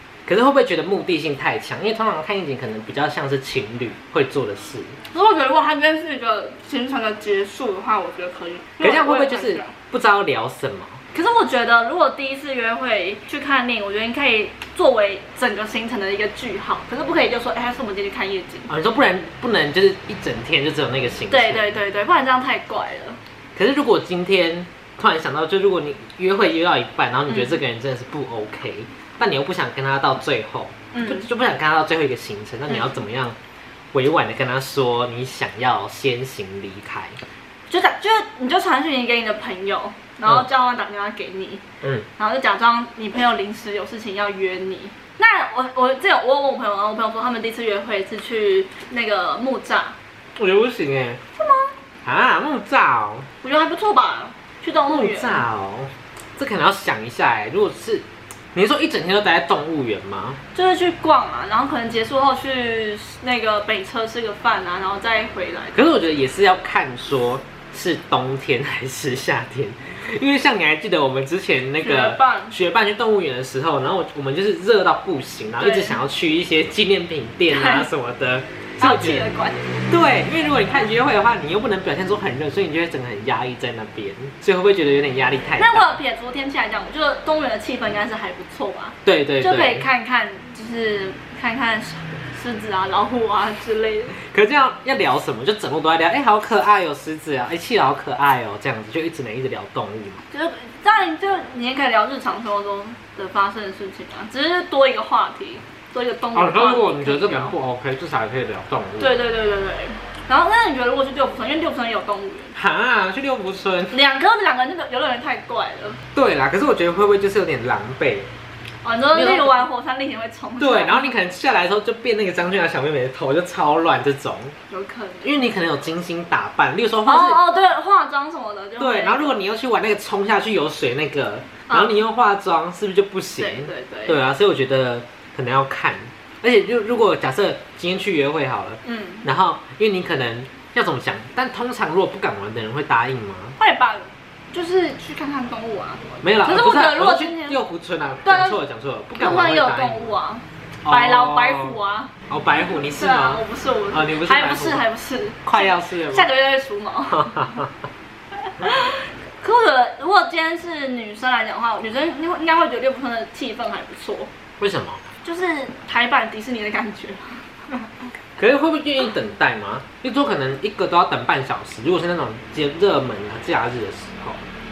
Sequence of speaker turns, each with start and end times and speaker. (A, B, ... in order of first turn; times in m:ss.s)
0:00.3-0:05.0 A
0:05.1-0:09.7 B
0:08.8-0:11.0 A
0:11.1-0:18.7 B
0:18.7-0:21.8 A
0:21.3-0:23.2 B
0:23.6-0:33.4 A
0:27.3-0:27.6 B
0:30.9-0:31.3 B
0:32.7-0:33.0 B
0:33.9-0:37.2 A
0:37.7-0:41.6 B
0:41.8-0:42.1 A
0:42.2-0:50.0 B
0:50.4-0:51.2 A
0:51.4-0:51.7 B
0:52.0-0:53.3 A
0:53.4-0:55.4 B
0:54.9-1:00.4 A
1:00.5-1:05.8 B
1:05.7-1:19.3 A
1:11.8-1:12.6 B
1:15.6-1:16.0 B
1:17.5-1:17.9 B
1:18.8-1:19.8 B
1:19.9-1:25.9 A
1:25.6-1:34.2 B
1:29.0-1:29.9 A
1:34.2-1:40.2 A
1:40.3-1:47.6 B
1:46.3-1:49.2 A
1:49.0-1:52.5 B
1:52.6-1:54.0 A
1:53.9-1:56.0 B
1:56.1-1:58.3 A
1:58.8-2:01.1 B
1:59.1-1:59.6 A
2:00.6-2:04.6 A
2:04.7-2:05.3 B
2:05.2-2:07.4 A
2:07.0-2:09.4 B
2:08.8-2:23.6 A
2:11.7-2:12.0 B
2:13.4-2:14.2 B
2:18.8-2:19.3 B
2:23.6-2:27.6 B
2:26.2-2:30.2 A
2:28.2-2:28.6 B
2:29.2-2:37.6 B
2:30.8-2:34.8 A
2:35.4-2:36.3 A
2:37.1-2:37.7 A
2:38.6-2:44.3 B
2:44.6-2:45.0 A
2:45.2-2:48.1 B
2:48.4-2:54.4 A